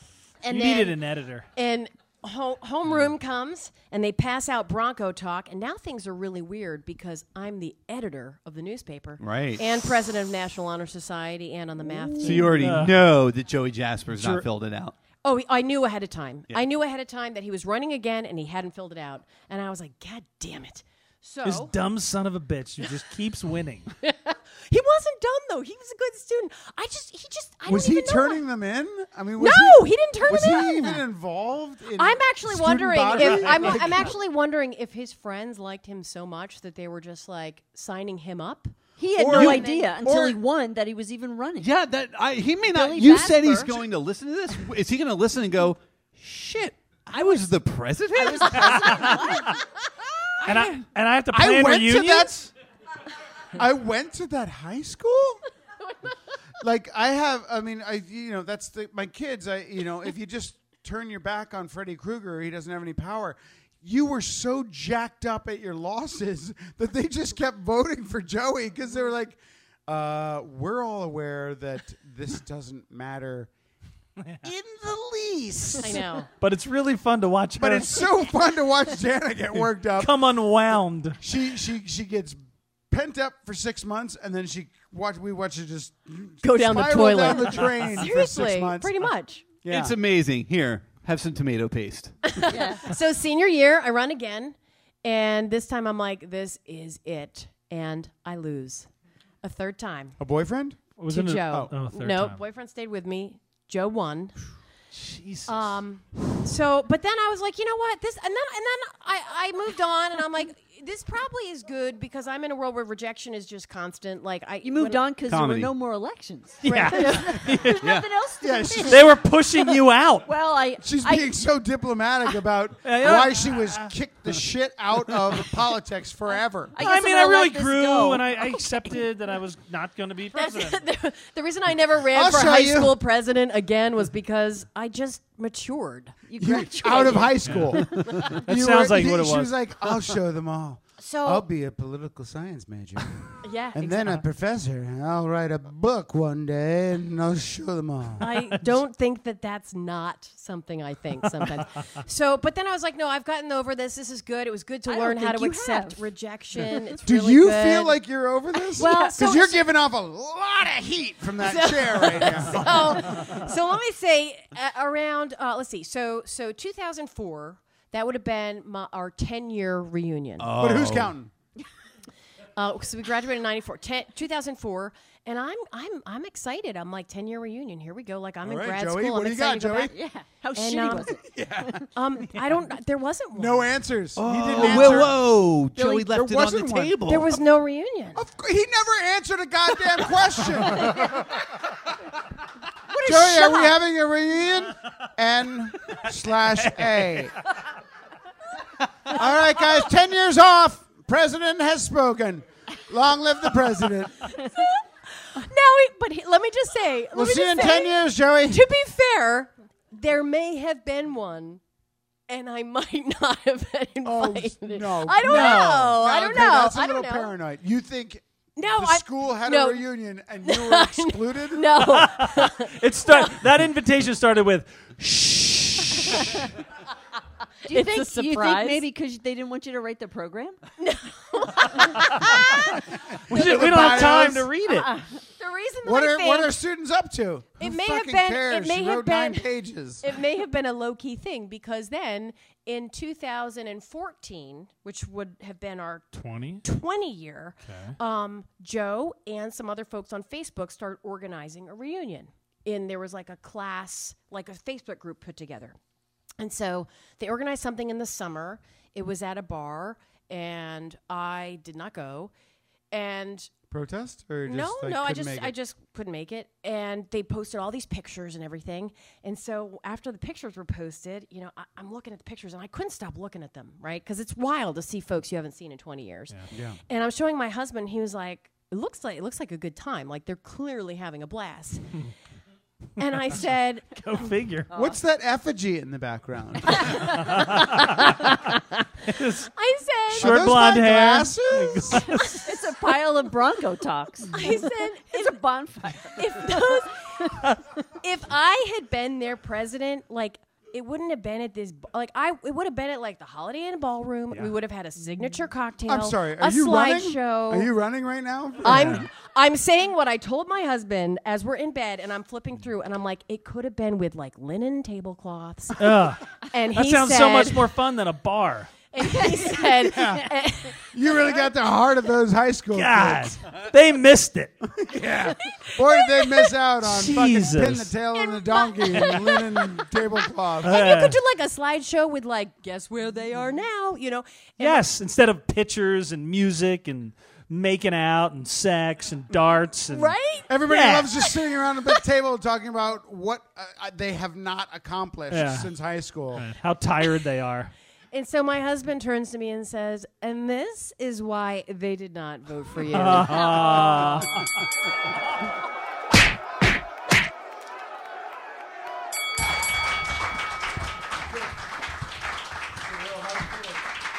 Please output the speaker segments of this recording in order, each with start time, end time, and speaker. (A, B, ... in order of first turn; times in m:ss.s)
0:00.4-0:01.0 A
0:00.5-0:01.5 B
0:01.6-0:12.6 A
0:09.2-0:09.6 C
0:12.2-0:15.0 C
0:12.4-0:13.0 B
0:14.1-0:14.5 B
0:15.2-0:21.7 A
0:21.4-0:23.9 B
0:24.0-0:28.4 A
0:27.7-0:34.2 D
0:29.4-0:31.0 A
0:32.0-0:39.9 A
0:33.8-0:34.0 E
0:39.0-0:41.7 E
0:39.2-0:40.4 D
0:39.3-0:39.6 C
0:41.6-0:49.1 C
0:42.7-0:43.8 E
0:48.2-0:49.6 E
0:48.7-0:49.4 B
0:50.4-0:52.5 B
0:51.3-0:52.5 D
0:53.6-0:55.4 D
0:56.6-1:13.5 D
1:14.4-1:16.1 D
1:15.8-1:16.3 A
1:16.4-1:18.0 B
1:17.6-1:20.4 D
1:20.0-1:21.2 B
1:21.2-1:22.4 D
1:22.9-1:28.9 D
1:26.4-1:29.5 A
1:29.6-1:30.0 D
1:29.7-1:32.2 C
1:32.3-1:38.9 A
1:32.5-1:32.9 E
1:39.4-1:40.2 A
1:40.2-1:40.8 D
1:41.0-1:42.4 B
1:41.1-1:44.4 A
1:44.9-1:45.8 B
1:45.5-1:55.0 A
1:54.6-1:59.0 E
1:55.3-1:55.7 C
1:56.6-1:57.8 B
1:56.6-1:57.8 A
1:57.8-1:58.1 C
1:58.4-1:59.0 D
1:58.9-2:00.3 B
2:00.3-2:01.3 E
2:00.8-2:06.7 D
2:02.8-2:03.9 B
2:06.7-2:08.7 E
2:06.8-2:10.8 B
2:10.4-2:16.2 A
2:12.1-2:13.0 D
2:16.3-2:17.6 E
2:16.4-2:23.2 D
2:16.8-2:17.3 A
2:17.4-2:17.8 B
2:18.1-2:18.4 A
2:18.3-2:19.5 B
2:21.0-2:21.4 A
2:23.4-2:24.2 A
2:23.7-2:28.3 D
2:28.2-2:38.0 A
2:34.9-2:36.0 E
2:37.0-2:43.2 D
2:38.7-2:39.6 A
2:38.8-2:39.2 E
2:41.4-2:50.5 A
2:50.4-2:51.1 C
2:50.6-2:51.3 D
2:52.6-3:00.0 A
2:58.4-3:00.0 D
2:59.9-3:01.9 E
3:00.6-3:01.2 A
3:01.2-3:01.8 D
3:01.9-3:03.7 A
3:03.4-3:05.2 D
3:04.2-3:07.4 C
3:04.5-3:05.1 E
3:05.8-3:06.2 E
3:06.1-3:07.0 D
3:07.0-3:08.2 A
3:08.2-3:11.2 D
3:10.8-3:11.2 E
3:12.9-3:13.7 A
3:13.0-3:13.7 E
3:13.0-3:17.4 D
3:19.1-3:24.3 D
3:24.4-3:31.6 A
3:27.1-3:28.6 D
3:32.3-3:37.3 A
3:34.0-3:42.0 D
3:38.6-3:39.8 A
3:40.4-3:43.4 A
3:41.8-3:46.3 B
3:47.6-3:48.8 A
3:47.7-3:50.6 E
3:50.8-3:52.8 A
3:51.8-3:52.7 B
3:53.3-3:54.5 D
3:53.3-3:54.9 B
3:53.3-3:54.3 A
3:54.8-3:56.6 A
3:55.8-4:00.2 D
3:57.6-3:59.4 A
4:00.0-4:06.1 A
4:06.1-4:06.6 B
4:06.6-4:15.8 A
4:07.6-4:08.0 B
4:16.4-4:22.3 A
4:22.9-4:23.5 A
4:23.7-4:25.5 D
4:24.4-4:36.4 A
4:36.5-4:36.8 D
4:36.9-4:41.9 A
4:43.0-4:44.2 A
4:44.0-4:44.7 B
4:44.7-4:47.1 D
4:46.7-4:48.1 A
4:47.2-4:49.5 B
4:49.4-4:50.4 A
4:50.1-4:52.1 D
4:50.2-4:52.4 B
4:51.9-4:52.9 A
4:52.2-4:56.9 E
4:54.3-4:55.4 A
4:56.1-5:07.7 A
5:05.9-5:09.1 D
5:08.6-5:17.7 A
5:08.7-5:09.1 B
5:15.8-5:18.7 B
5:18.9-5:20.9 A
5:19.0-5:20.2 E
5:19.8-5:20.3 D
5:20.9-5:23.4 D
5:22.7-5:24.6 B
5:24.7-5:30.9 D
5:25.4-5:26.5 A
5:26.8-5:27.9 B
5:28.1-5:30.0 A
5:30.6-5:31.2 B
5:30.6-5:34.8 A
5:34.6-5:41.1 B
5:39.9-5:40.5 A
5:40.5-5:46.4 D
5:41.3-5:41.9 A
5:45.3-5:45.7 B
5:46.3-5:47.7 B
5:48.1-5:54.5 A
5:52.9-5:54.5 B